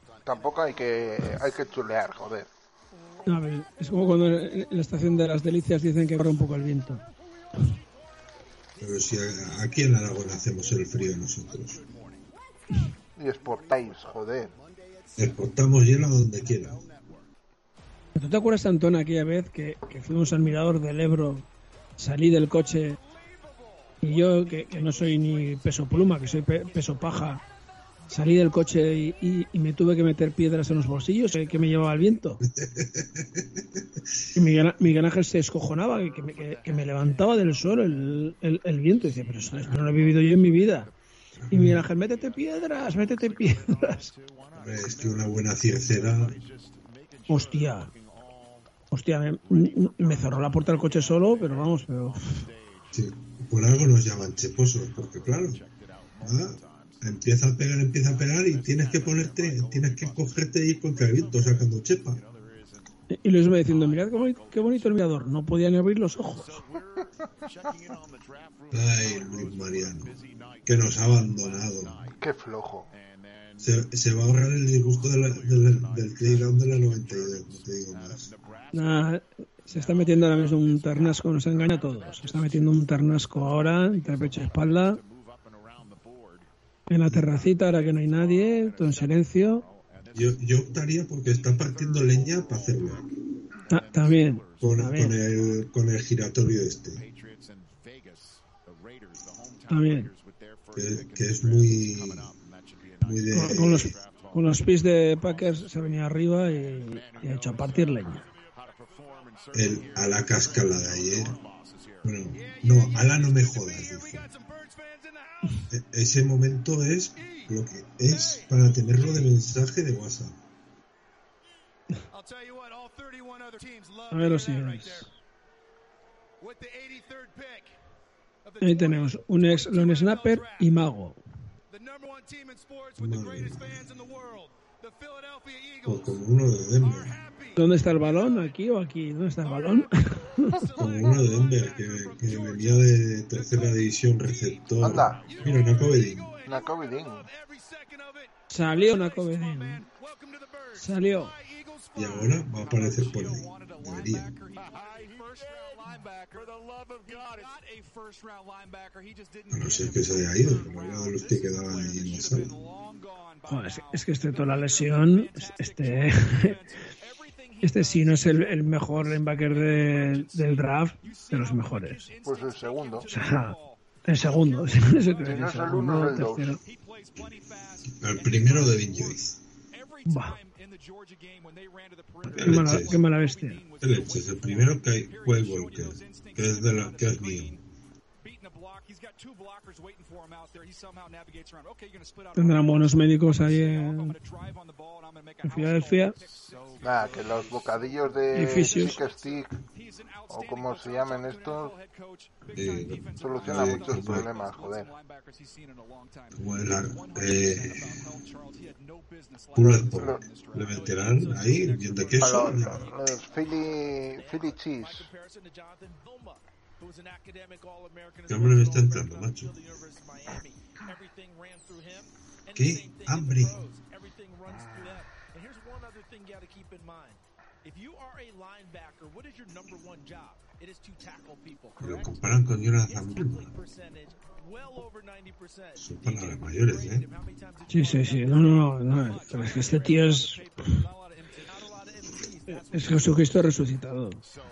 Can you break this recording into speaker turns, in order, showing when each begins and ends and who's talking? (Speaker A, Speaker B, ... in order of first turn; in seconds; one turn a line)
Speaker A: 0.2-2.5
Speaker B: 3.3-7.0
Speaker C: 8.8-11.8
Speaker A: 13.2-14.5
Speaker C: 15.2-16.9
Speaker B: 18.1-21.5
Speaker B: 22.0-23.0
Speaker B: 24.0-27.4
Speaker B: 28.1-32.4
Speaker C: 32.4-34.2
Speaker B: 34.3-40.9
Speaker C: 41.4-41.9
Speaker B: 41.5-44.1
Speaker C: 44.5-46.4
Speaker B: 47.3-47.9
Speaker B: 48.9-52.4
Speaker C: 52.9-55.6
Speaker C: 56.2-62.2
Speaker B: 63.1-66.6
Speaker C: 68.7-72.1
Speaker A: 72.2-72.9
Speaker C: 73.6-78.3
Speaker B: 78.7-85.0
Speaker B: 86.9-89.7
Speaker C: 90.1-93.1
Speaker B: 93.7-95.1
Speaker C: 94.6-97.0
Speaker B: 99.7-100.1
Speaker C: 100.7-102.3
Speaker C: 103.0-103.9
Speaker B: 103.3-108.2
Speaker C: 109.5-111.4
Speaker C: 112.0-114.3
Speaker C: 115.7-120.4
Speaker B: 124.1-125.1
Speaker B: 128.6-131.2
Speaker C: 133.0-133.9
Speaker C: 135.8-137.2
Speaker B: 137.6-140.7
Speaker C: 140.8-146.3
Speaker A: 144.8-145.3
Speaker A: 146.4-147.3
Speaker B: 148.5-149.9
Speaker B: 150.7-151.3
Speaker C: 151.9-154.4
Speaker C: 159.5-162.6
Speaker B: 163.4-166.6
Speaker B: 167.6-172.1
Speaker A: 172.2-173.1
Speaker B: 173.1-176.6
Speaker A: 175.2-176.5
Speaker C: 178.0-179.4
Speaker B: 180.1-180.4
Speaker B: 182.2-183.6
Speaker C: 182.3-183.0
Speaker C: 183.8-187.6
Speaker B: 192.3-194.2
Speaker B: 195.4-196.2
Speaker A: 196.8-199.6
Speaker B: 198.3-199.0
Speaker A: 200.3-201.8
Speaker C: 202.5-204.3
Speaker A: 203.2-204.9
Speaker C: 206.3-208.1
Speaker C: 209.5-212.8
Speaker A: 209.6-210.3
Speaker A: 212.2-215.1
Speaker C: 218.3-219.6
Speaker C: 222.5-223.6
Speaker A: 224.5-225.0
Speaker C: 231.8-233.6
Speaker C: 235.8-237.1
Speaker B: 237.7-240.7
Speaker B: 242.5-244.2